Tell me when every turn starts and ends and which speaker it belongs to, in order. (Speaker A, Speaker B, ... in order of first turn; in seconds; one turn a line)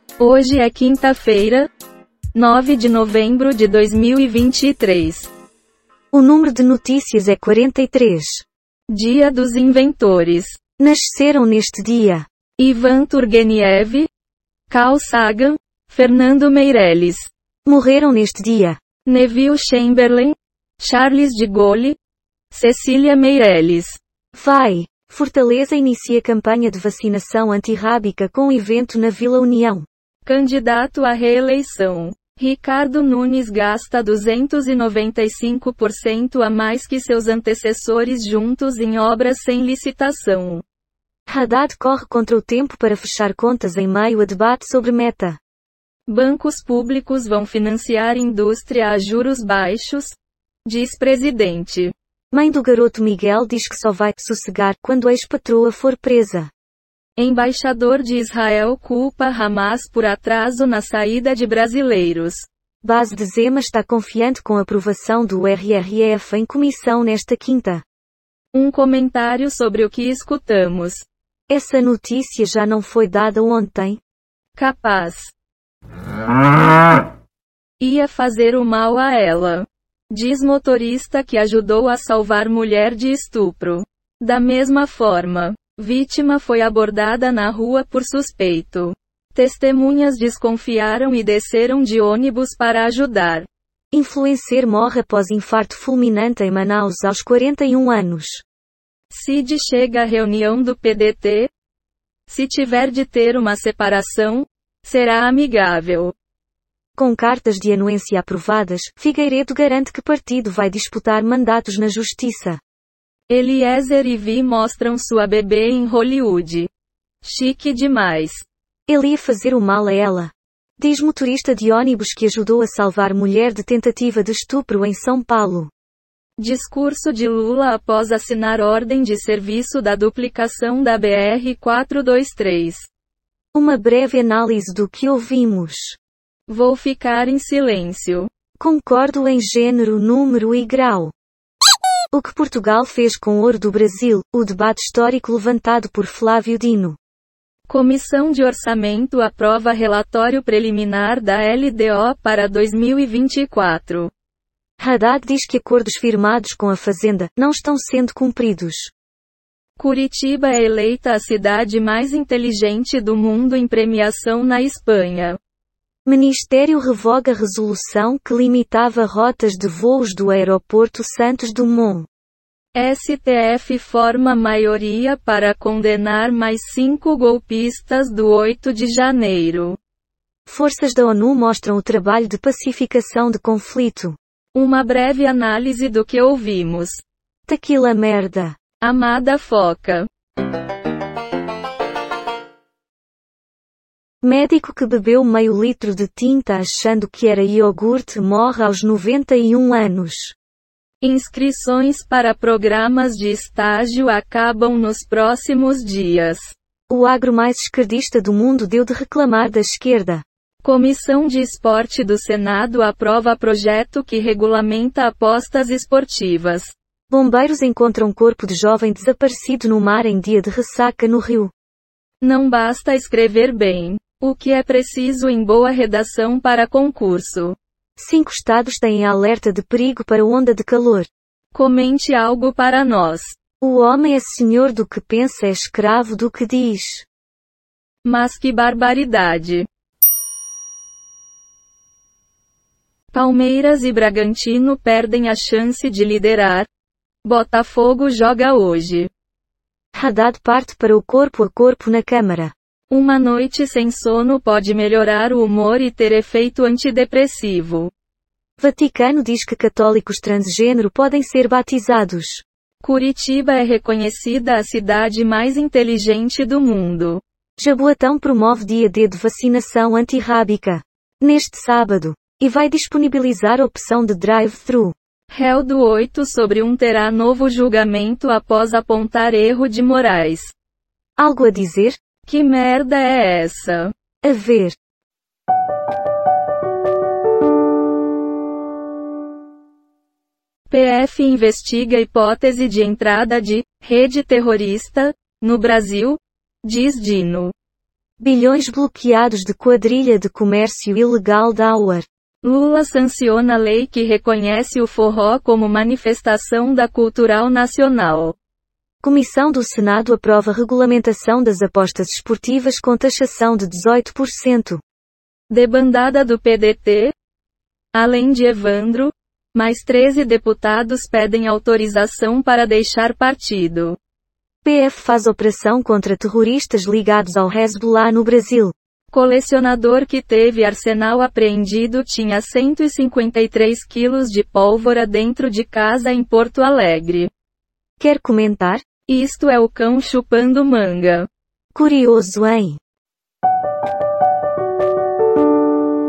Speaker A: 0.2-1.7
Speaker A: 2.4-5.3
Speaker B: 6.1-8.4
Speaker A: 8.9-10.6
Speaker B: 10.8-12.3
Speaker A: 12.6-14.1
Speaker A: 14.7-17.3
Speaker B: 17.7-18.8
Speaker A: 19.1-22.0
Speaker A: 22.5-24.0
Speaker B: 24.4-29.9
Speaker A: 30.3-40.6
Speaker B: 41.3-45.4
Speaker A: 46.1-51.9
Speaker B: 52.3-56.5
Speaker A: 57.2-62.5
Speaker B: 62.8-67.8
Speaker A: 68.5-71.1
Speaker B: 71.5-74.0
Speaker A: 74.6-75.3
Speaker A: 77.8-93.5
Speaker B: 93.9-98.4
Speaker A: 99.1-101.5
Speaker A: 102.3-106.1
Speaker B: 107.0-112.6
Speaker A: 113.3-116.7
Speaker A: 117.2-118.5
Speaker B: 118.9-125.7
Speaker A: 126.4-132.9
Speaker B: 133.5-136.0
Speaker A: 136.5-138.3
Speaker B: 138.6-141.1
Speaker B: 142.1-147.0
Speaker A: 147.7-154.1
Speaker B: 154.8-158.9
Speaker A: 159.8-165.4
Speaker B: 166.1-172.1
Speaker A: 172.7-179.8
Speaker B: 180.5-184.2
Speaker A: 184.5-187.0
Speaker B: 187.5-188.6
Speaker A: 188.8-190.1
Speaker B: 194.2-200.3
Speaker A: 201.0-206.5
Speaker B: 206.9-210.2
Speaker A: 210.6-216.7
Speaker B: 217.1-221.5
Speaker A: 222.2-227.6
Speaker B: 228.0-231.1
Speaker A: 231.5-233.4
Speaker B: 233.6-237.1
Speaker A: 238.0-239.7
Speaker A: 243.1-246.7
Speaker A: 247.2-249.1
Speaker B: 249.9-252.5
Speaker A: 252.9-257.9
Speaker B: 258.6-262.4
Speaker A: 262.8-267.2
Speaker B: 267.6-274.9
Speaker A: 275.3-280.5
Speaker B: 281.2-282.0
Speaker A: 282.3-283.9
Speaker B: 284.2-284.8
Speaker A: 290.7-297.5
Speaker B: 298.2-302.1
Speaker A: 302.4-308.4
Speaker B: 309.0-314.8
Speaker A: 315.5-317.1
Speaker A: 317.9-324.0
Speaker B: 324.6-328.7
Speaker A: 329.1-337.3
Speaker B: 338.0-338.9
Speaker A: 339.1-341.3
Speaker B: 341.7-342.8